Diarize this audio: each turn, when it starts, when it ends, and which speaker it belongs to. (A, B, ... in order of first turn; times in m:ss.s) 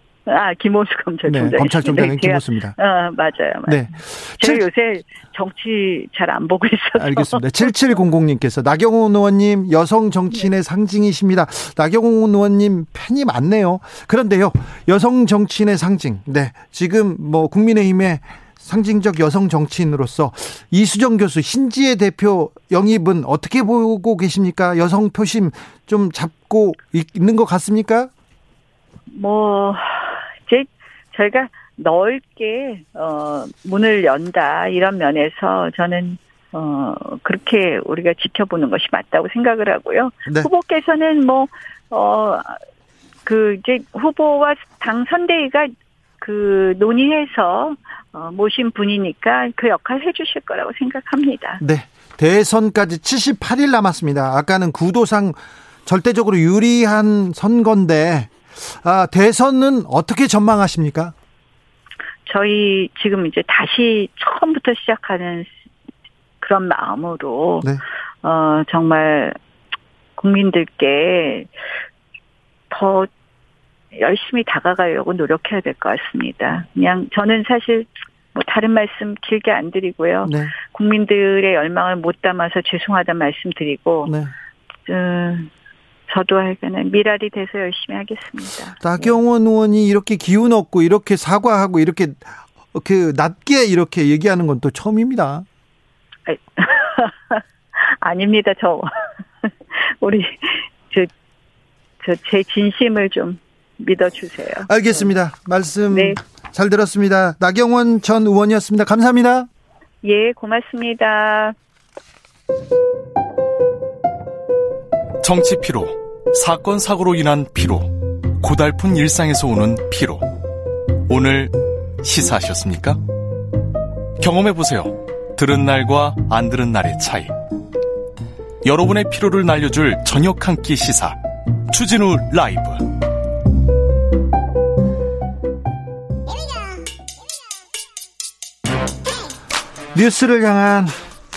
0:00.3-0:08.0 A
0:01.3-0:02.8 B
0:03.7-0:04.7 B
0:07.0-0:28.1 B
0:29.1-0:42.6 A
0:43.3-0:51.6 A
0:51.6-1:01.1 B
1:02.3-1:05.5 A
1:06.4-1:07.7 A
1:08.2-1:09.4 A
1:10.2-1:11.5 A
1:12.7-1:13.1 A
1:13.9-1:24.1 A
1:20.2-1:20.5 B
1:24.1-1:24.3 B
1:24.9-1:25.5 A
1:26.1-1:29.2 A
1:28.8-1:35.5 B
1:36.3-1:41.1 A
1:42.0-1:45.1 A
1:44.6-1:49.5 B
1:45.9-1:46.2 A
1:50.0-1:51.6 A
1:55.2-2:00.3 C
2:01.1-2:03.0 C
2:04.2-2:07.4 C
2:08.6-2:11.2 C
2:11.7-2:12.9 C
2:19.9-2:21.0 B